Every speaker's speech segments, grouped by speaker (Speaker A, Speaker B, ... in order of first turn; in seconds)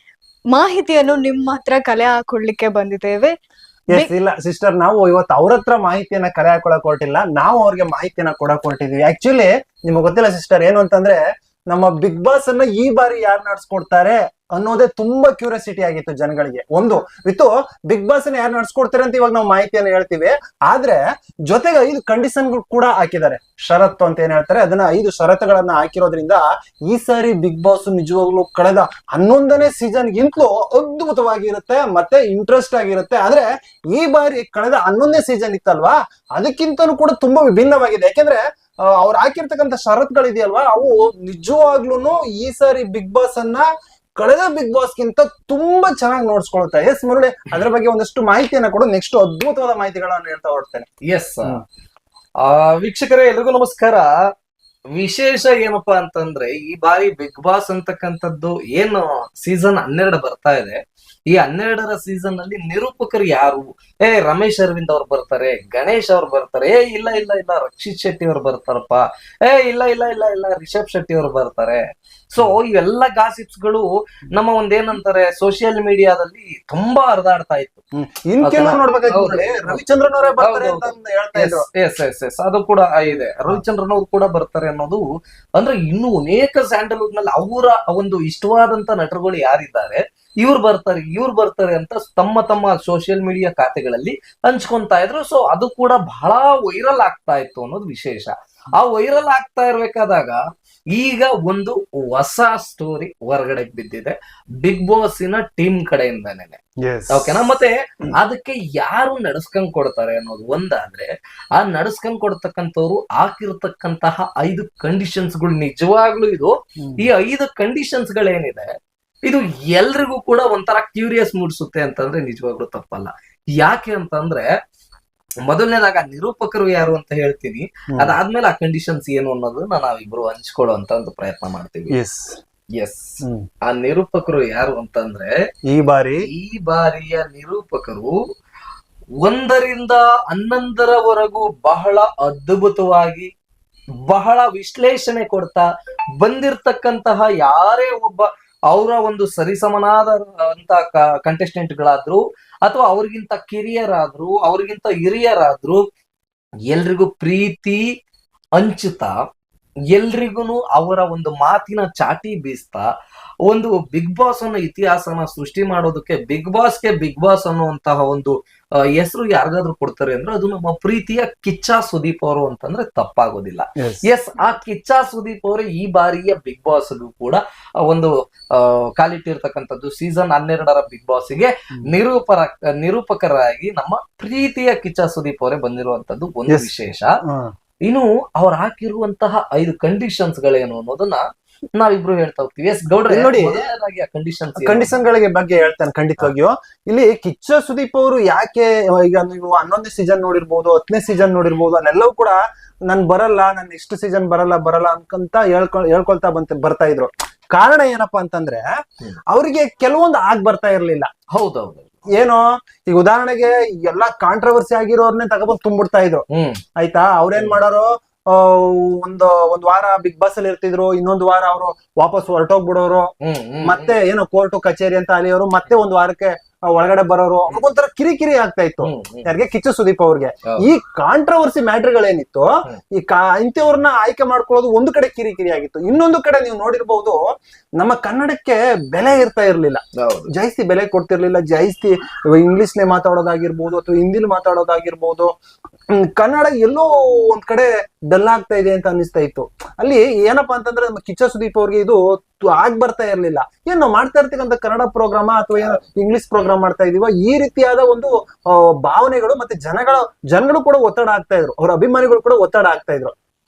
Speaker A: 0.5-3.4
Speaker B: 3.9-50.9, 78.0-81.7, 83.1-83.6, 106.8-107.5, 116.8-117.0, 131.9-132.4, 135.7-136.2, 173.8-174.0, 187.2-187.5, 193.1-193.7, 194.6-208.6, 209.3-211.1, 212.1-216.2, 216.8-223.1, 223.6-237.2, 237.8-245.3, 245.9-263.1
Speaker C: 51.0-51.6, 52.4-54.1, 54.9-60.8, 61.3-77.8, 78.4-79.8, 80.4-85.0, 85.5-100.4, 100.9-106.6, 107.1-118.7, 119.2-124.5, 125.4-132.0, 132.8-135.3, 136.2-138.1, 139.2-143.3, 144.1-145.6, 146.2-155.8, 156.7-157.8, 158.6-159.1, 159.9-162.9, 163.4-187.2, 187.8-194.9, 211.3-212.0, 216.3-216.6, 223.2-223.9, 228.8-229.3, 239.9-240.3